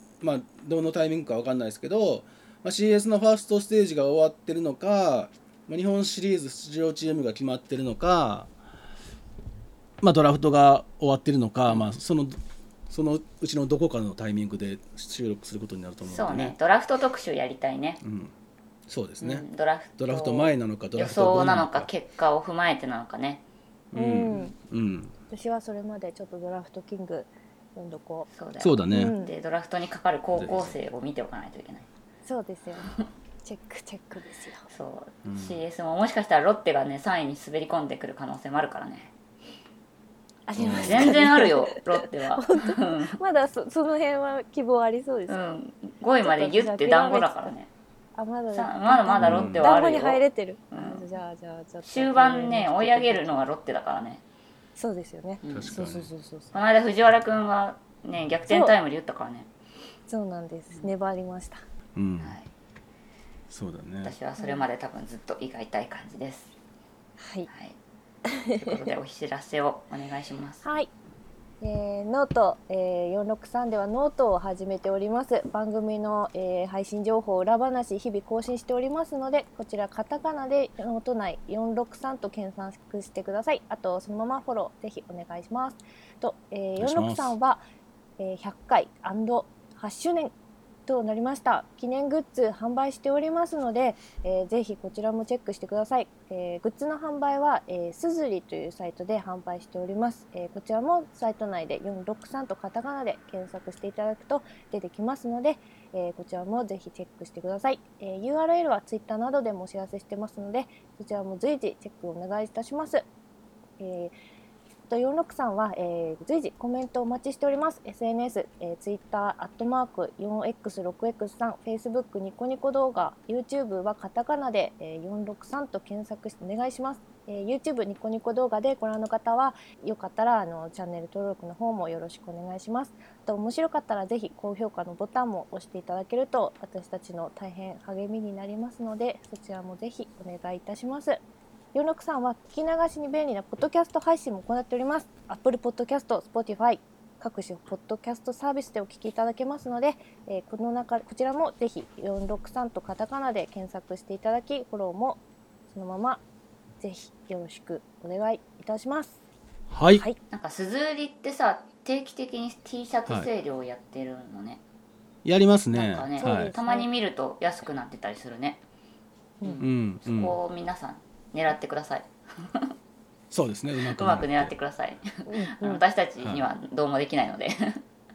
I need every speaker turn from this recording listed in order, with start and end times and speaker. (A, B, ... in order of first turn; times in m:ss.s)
0:00.2-0:08.5 A
0:10.0-0:12.4 A
0:12.9-0:16.6 A
0:16.0-0:18.0 B
0:18.0-0:18.3 A
0:18.9-0:19.4 A
0:19.2-0:23.4 B
0:20.0-0:21.9 A
0:23.9-0:25.1 A
0:23.9-0:24.5 C
0:25.3-0:28.3 C
0:28.3-0:31.9 B
0:28.6-0:29.1 A
0:28.9-0:29.3 C
0:30.4-0:30.8 A
0:32.2-0:34.7 C
0:34.7-0:39.1 B
0:35.2-0:35.6 A
0:40.5-0:45.4 C
0:40.6-0:41.2 A
0:40.7-0:43.2 B
0:45.3-0:47.7 B
0:46.2-0:47.5 C
0:48.2-0:53.4 C
0:48.5-0:51.1 B
0:49.2-0:49.7 A
0:51.8-0:54.2 B
0:54.8-0:56.5 C
0:55.4-0:55.8 B
0:55.5-0:56.1 A
0:56.5-0:59.5 B
0:58.5-0:58.7 C
1:00.1-1:01.6 C
1:02.0-1:02.4 A
1:02.2-1:02.5 B
1:03.5-1:04.2 A
1:04.0-1:06.5 B
1:04.4-1:04.7 C
1:07.2-1:07.5 C
1:07.5-1:07.8 B
1:08.3-1:08.8 C
1:08.6-1:10.6 B
1:10.6-1:10.9 C
1:11.6-1:27.6 C
1:26.8-1:27.4 A
1:28.2-1:30.3 C
1:30.9-1:53.0 C
1:53.8-1:54.1 C
1:54.9-2:21.2 C
2:21.7-2:36.2 C
2:36.8-2:39.2 C
2:39.7-2:40.0 A
2:40.3-2:44.6 B
2:45.2-2:46.5 A
2:45.7-2:48.6 B
2:46.2-2:46.9 C
2:49.4-2:52.7 B
2:49.6-2:50.4 A
2:53.3-2:54.5 A
2:53.8-2:57.8 B
2:55.3-2:55.8 C